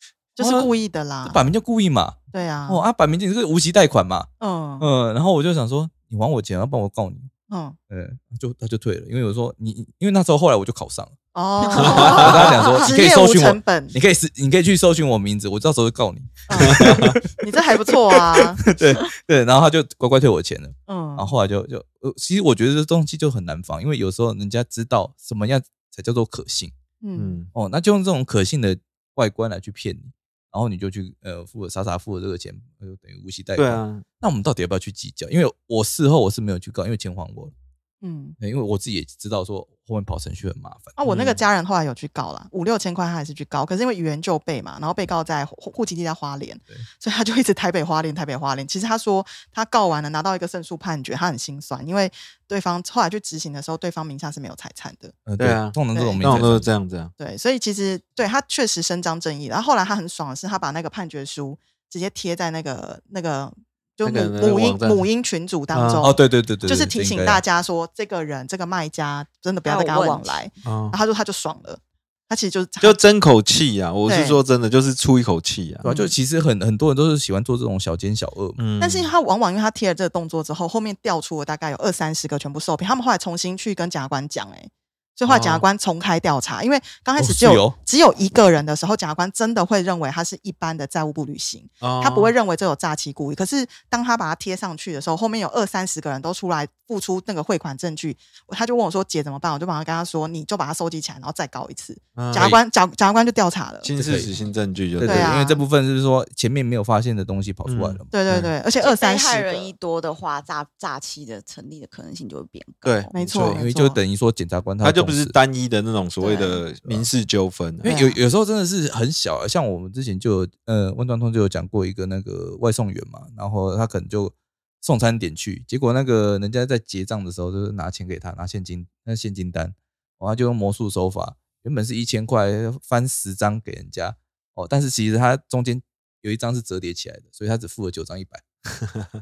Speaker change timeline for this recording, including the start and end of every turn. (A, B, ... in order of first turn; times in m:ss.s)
0:00.4-0:01.4 A
0:00.4-0:00.7 B
0:01.2-0:02.2 B
0:02.3-0:02.8 A
0:02.7-0:04.3 B
0:04.4-0:04.9 A
0:04.8-0:07.3 B
0:07.5-0:07.8 A
0:07.9-0:11.1 B
0:11.4-0:14.0 A
0:11.7-0:17.6 B
0:11.8-0:12.6 C
0:16.5-0:18.6 A
0:16.6-0:17.2 C
0:18.1-0:26.7 B
0:20.9-0:21.3 A
0:27.0-0:27.4 A
0:27.2-0:27.5 C
0:27.5-0:37.5 B
0:33.6-0:34.0 C
0:38.0-0:38.4 A
0:38.4-0:41.0 B
0:41.0-0:55.2 A
0:41.1-0:41.4 C
0:55.3-0:56.7 B
0:55.4-0:57.1 C
0:55.9-0:56.2 A
0:57.2-1:13.0 A
1:04.0-1:05.0 C
1:05.7-1:06.1 C
1:06.0-1:07.4 B
1:09.7-1:10.3 D
1:10.6-1:11.0 C
1:12.8-1:15.9 C
1:14.1-1:14.4 A
1:15.8-1:18.6 B
1:15.8-1:16.1 A
1:18.6-1:19.1 C
1:18.8-1:43.9 A
1:25.3-1:25.6 C
1:27.2-1:27.8 B
1:31.8-1:32.3 C
1:42.2-1:42.5 C
1:43.8-1:45.3 C
1:44.0-1:44.3 B
1:45.0-1:48.1 B
1:45.0-1:45.6 A
1:47.7-1:48.5 C
1:48.1-1:49.7 A
1:48.8-1:53.1 D
1:52.8-1:53.6 C
1:53.1-1:54.0 A
1:53.5-1:55.4 B
1:54.8-1:57.9 C
1:56.2-1:56.6 D
1:57.8-2:18.4 B
1:57.8-1:58.2 A